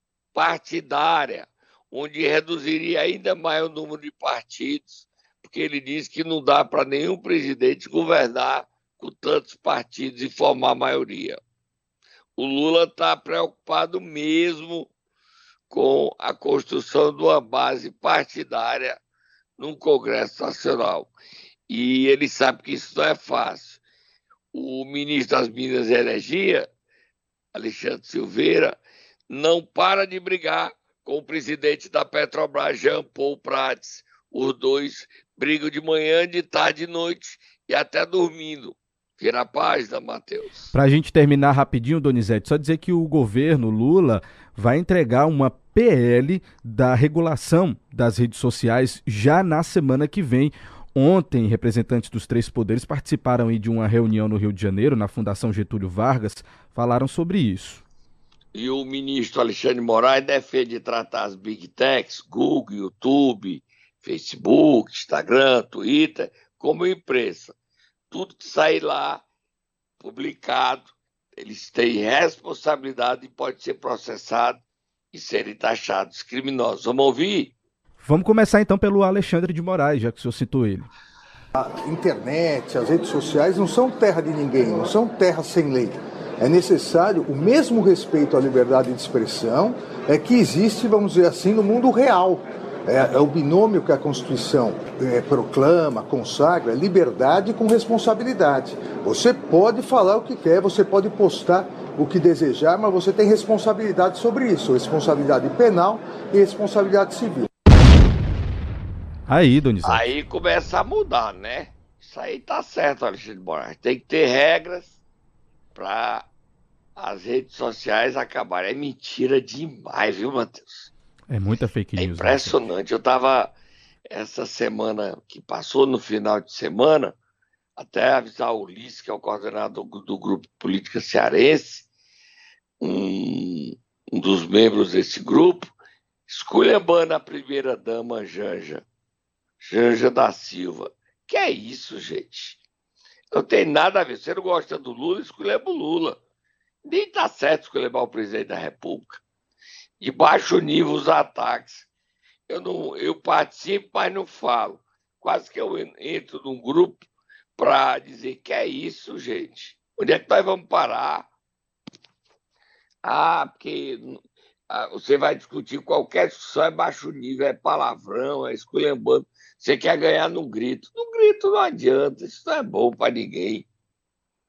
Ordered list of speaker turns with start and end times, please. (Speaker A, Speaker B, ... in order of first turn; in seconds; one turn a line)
Speaker A: 0.3-11.4
Speaker A: 12.4-14.9
Speaker A: 15.7-19.0
Speaker A: 19.6-21.1
Speaker A: 21.7-23.8
Speaker A: 24.5-26.7
Speaker A: 27.5-28.8
Speaker A: 29.3-40.7
Speaker B: 40.7-57.8
Speaker A: 58.5-67.5
Speaker A: 68.1-69.2
Speaker A: 70.0-74.6
Speaker A: 75.1-77.5
Speaker B: 78.0-80.9
Speaker C: 81.5-107.5
Speaker B: 109.3-110.1
Speaker A: 109.8-114.9
Speaker A: 115.7-116.3
Speaker A: 117.0-120.9
Speaker B: 121.3-122.6
Speaker A: 122.0-123.5
Speaker A: 124.1-127.1
Speaker A: 127.8-131.9
Speaker A: 132.8-135.7
Speaker A: 136.3-138.8
Speaker A: 139.6-142.6
Speaker A: 143.3-146.2
Speaker A: 146.8-149.2
Speaker A: 150.0-151.9
Speaker A: 152.5-157.0
Speaker A: 157.6-161.3
Speaker A: 163.0-173.7